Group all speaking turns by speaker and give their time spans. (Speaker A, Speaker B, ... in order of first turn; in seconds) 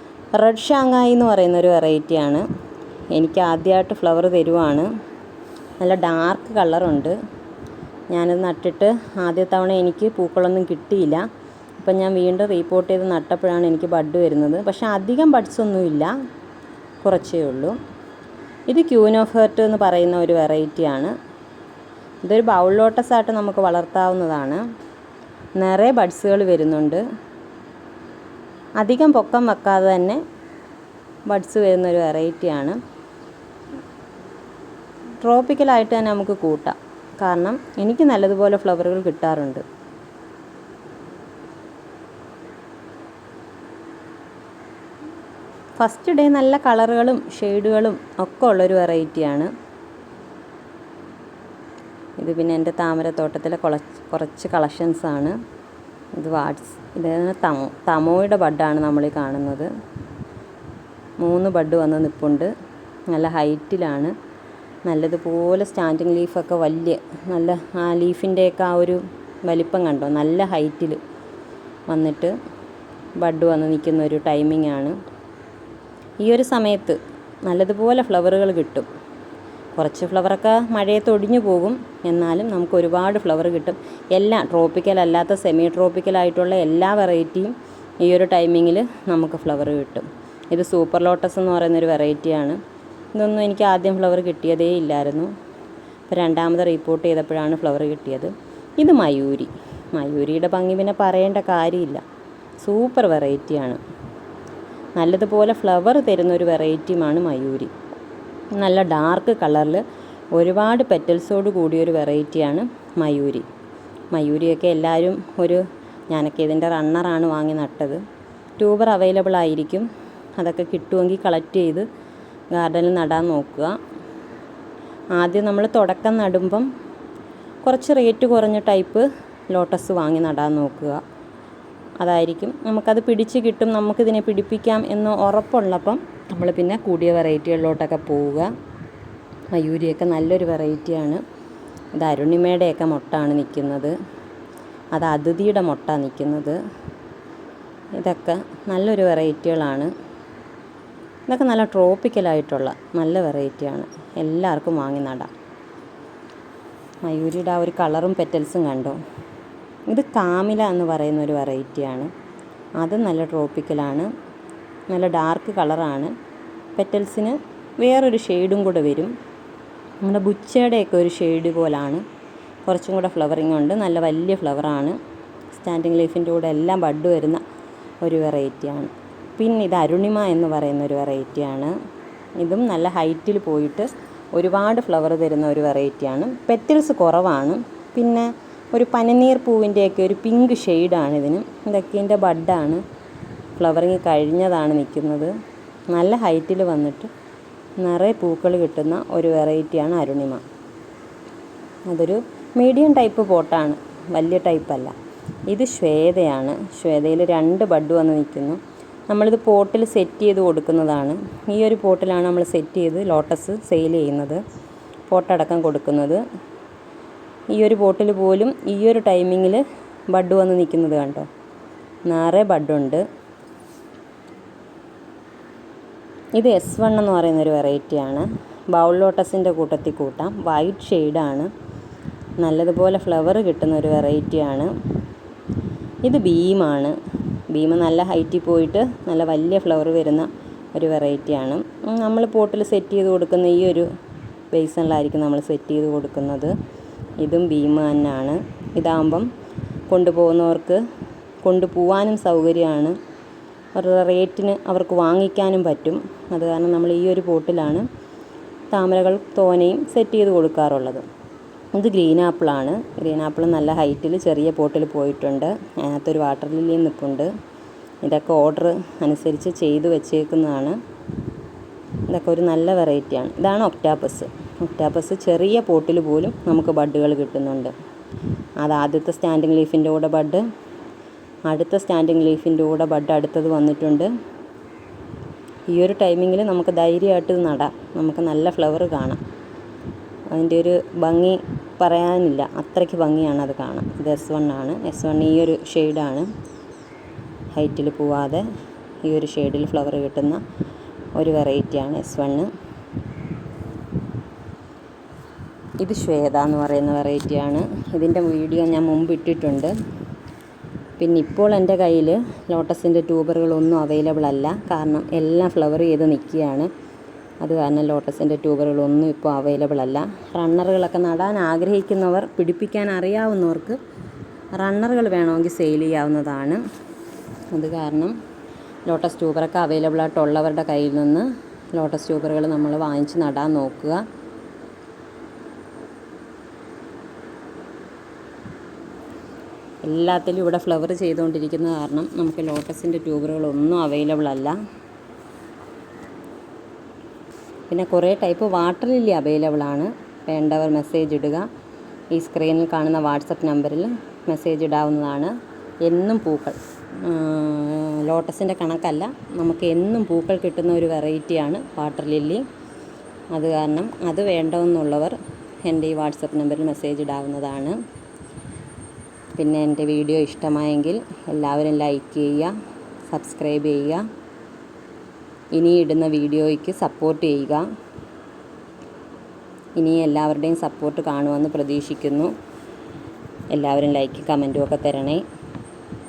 Speaker A: 0.3-2.4, 3.1-4.9, 5.8-7.2, 8.1-11.3, 11.8-16.1, 17.0-17.8, 18.7-21.1, 22.2-24.6, 25.6-27.0, 28.8-30.2, 31.3-32.8, 35.2-39.6, 45.8-49.5, 52.2-55.4, 56.1-59.7, 61.2-62.5, 63.1-64.1, 64.9-71.0, 71.9-72.3, 73.2-75.0, 76.2-78.9, 79.8-92.6, 93.2-95.3, 96.1-102.0, 102.6-103.8, 105.0-107.7, 108.6-109.8, 110.3-113.5, 114.1-118.0, 118.6-121.9, 122.5-123.8, 125.2-126.7, 127.6-131.0, 132.0-138.5, 139.5-141.2, 141.9-143.9, 144.9-146.6, 148.0-149.9, 151.3-155.3, 157.1-159.0, 159.9-162.1, 162.8-164.1, 164.9-166.1, 166.8-169.1, 170.0-172.0, 172.7-175.0, 175.5-177.4, 178.0-181.8, 182.4-192.8, 193.6-195.3, 195.9-197.1, 197.8-200.4, 201.9-204.9, 205.5-214.4, 215.1-216.2, 217.5-221.3, 222.1-223.0, 226.4-231.5, 232.4-234.7, 236.0-237.0, 237.5-243.9, 244.5-246.5, 247.2-249.3, 249.9-250.8, 251.4-253.0, 253.8-257.9, 258.7-261.0, 261.8-267.3, 268.0-270.8, 272.1-277.7, 278.6-280.4, 281.5-284.1, 285.7-289.2, 290.3-296.3, 297.6-298.4, 299.0-300.4, 301.2-302.5, 305.8-309.7, 311.0-316.7, 317.4-323.8, 324.5-326.6, 327.5-328.2, 328.9-334.0, 339.8-344.6, 347.7-351.5, 352.1-362.4, 363.3-367.8, 369.4-372.5, 373.1-374.0, 375.5-377.6, 379.8-382.3, 383.5-385.2